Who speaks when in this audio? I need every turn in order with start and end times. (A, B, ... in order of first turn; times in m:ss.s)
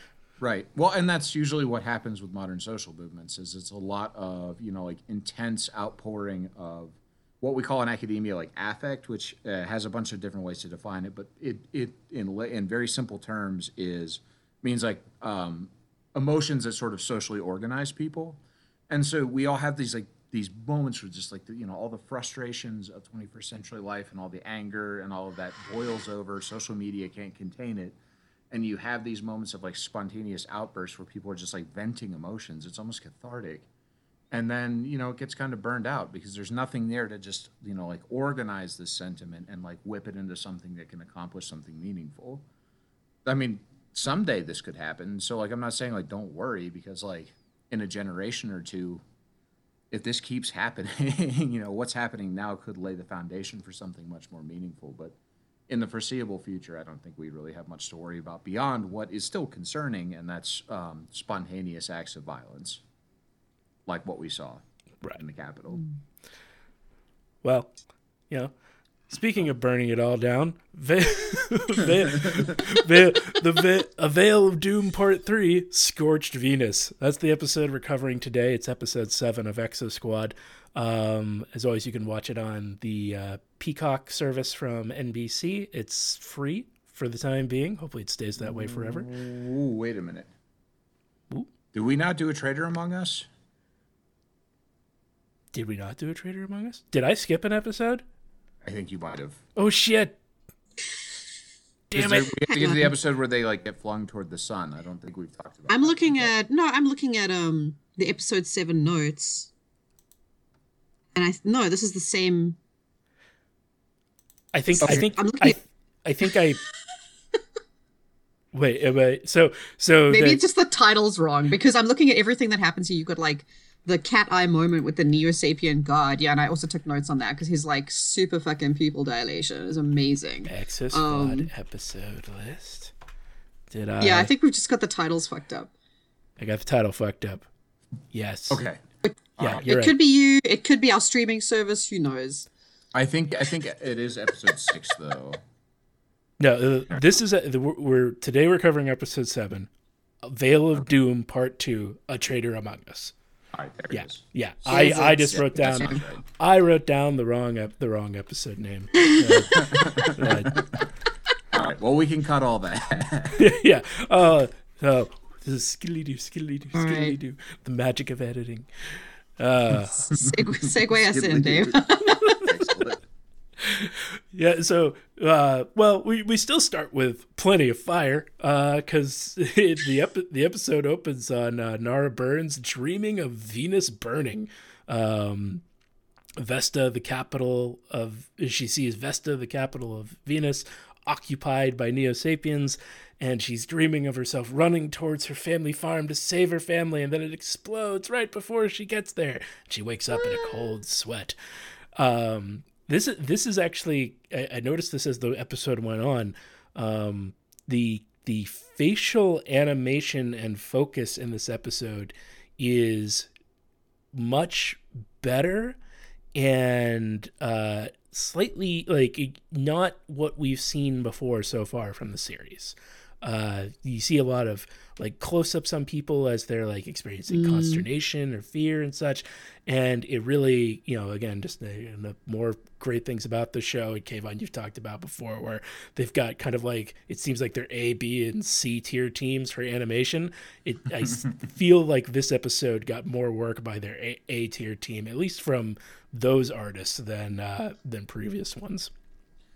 0:00.4-0:28.0 A
0:28.5-0:33.7 A
0:34.3-0:42.4 A
0:43.2-0:49.0 A
0:49.9-0:55.2 A
0:55.7-1:02.8 A
1:03.9-1:04.6 A
1:05.2-1:05.8 A
1:07.4-1:07.7 B
1:09.1-1:29.1 B
1:28.4-1:30.3 A
1:31.7-1:33.3 A
1:35.5-1:38.0 B
1:38.6-1:39.4 A
1:39.6-1:40.2 B
1:41.9-1:42.3 B
1:42.0-1:46.3 A
1:42.5-1:42.9 C
1:45.7-1:49.5 C
1:51.2-1:52.6 C
1:54.5-1:56.6 B
1:54.8-1:55.6 C
1:58.5-2:00.4 B
2:00.1-2:11.5 C
2:10.5-2:12.9 B
2:13.7-2:14.3 B
2:14.0-2:15.7 C
2:16.4-2:17.5 B
2:18.1-2:18.6 B
2:18.5-2:18.8 A
2:19.0-2:22.5 C
2:19.4-2:19.6 A
2:19.4-2:20.0 B
2:22.9-2:25.4 A
2:26.4-2:29.7 B
2:30.2-2:33.1 B
2:33.5-2:36.2 A
2:33.9-2:40.7 B
2:34.7-2:35.2 C
2:39.0-2:40.0 C
2:39.6-2:40.8 A
2:41.5-2:43.4 A
2:43.4-2:48.7 B
2:46.7-2:47.2 C
2:49.4-2:50.1 B
2:50.0-2:52.4 C
2:50.4-2:53.0 A
2:53.6-3:05.6 B
3:06.4-3:21.4 B
3:22.0-3:33.3 B
3:34.1-3:35.8 B
3:36.4-4:08.9 B
3:47.3-3:47.8 C